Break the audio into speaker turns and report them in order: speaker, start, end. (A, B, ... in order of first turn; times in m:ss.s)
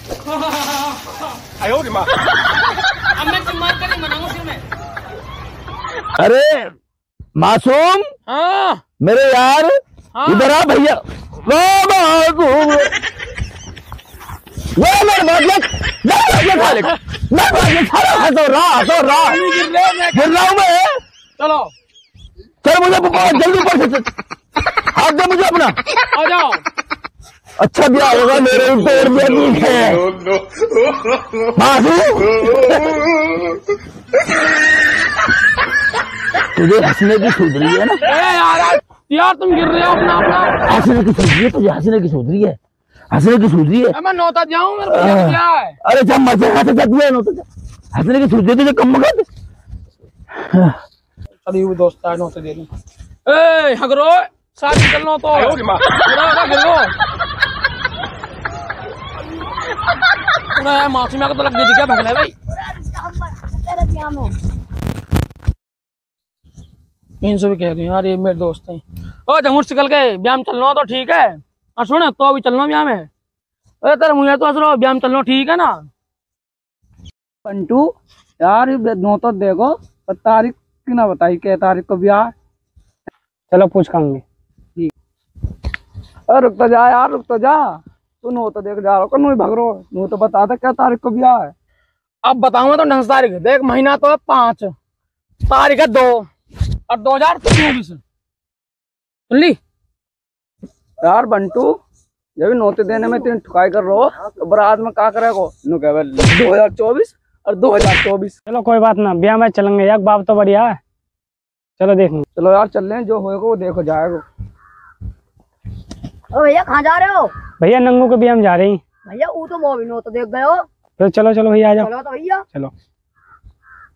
0:03.2-0:04.6 A
0:06.2-0:06.7 B
0:07.4-0:08.1 B
0:08.3-0:08.8 A
0:09.0-0:12.9 B
0:10.2-0:10.5 A
0:14.8-0:19.5 B
0:16.6-0:16.9 A
0:19.2-0:20.3 A
0:20.1-0:21.0 B
0:21.4-0:21.7 A
0:22.6-0:24.1 B
0:24.9-0:25.8 B
0:26.1-0:26.6 A
0:27.6-0:30.1 B
0:31.5-0:32.9 B
0:36.6-0:38.0 B
0:38.1-0:40.6 A
0:40.7-0:42.6 B
0:43.1-0:44.0 B
0:43.9-0:45.8 A
0:44.9-0:49.3 B
0:50.5-0:50.8 B
0:51.4-0:52.7 A
0:53.3-0:56.9 A
1:00.6-1:02.3 A
1:02.8-1:04.3 C
1:07.2-1:13.1 A
1:13.8-1:15.9 A
1:17.4-1:17.9 D
1:18.4-1:22.3 D
1:23.5-1:24.2 E
1:26.3-1:27.6 D
1:28.2-1:31.5 D
1:32.2-1:34.7 A
1:35.4-1:36.3 A
1:36.9-1:38.0 A
1:39.3-1:39.6 A
1:41.0-1:41.8 D
1:42.4-1:48.4 D
1:48.5-1:50.8 E
1:51.8-1:52.2 E
1:52.4-1:54.2 D
1:56.3-1:57.3 C
1:57.5-1:58.8 E
1:59.0-2:00.7 C
2:01.0-2:01.9 E
2:01.8-2:02.5 C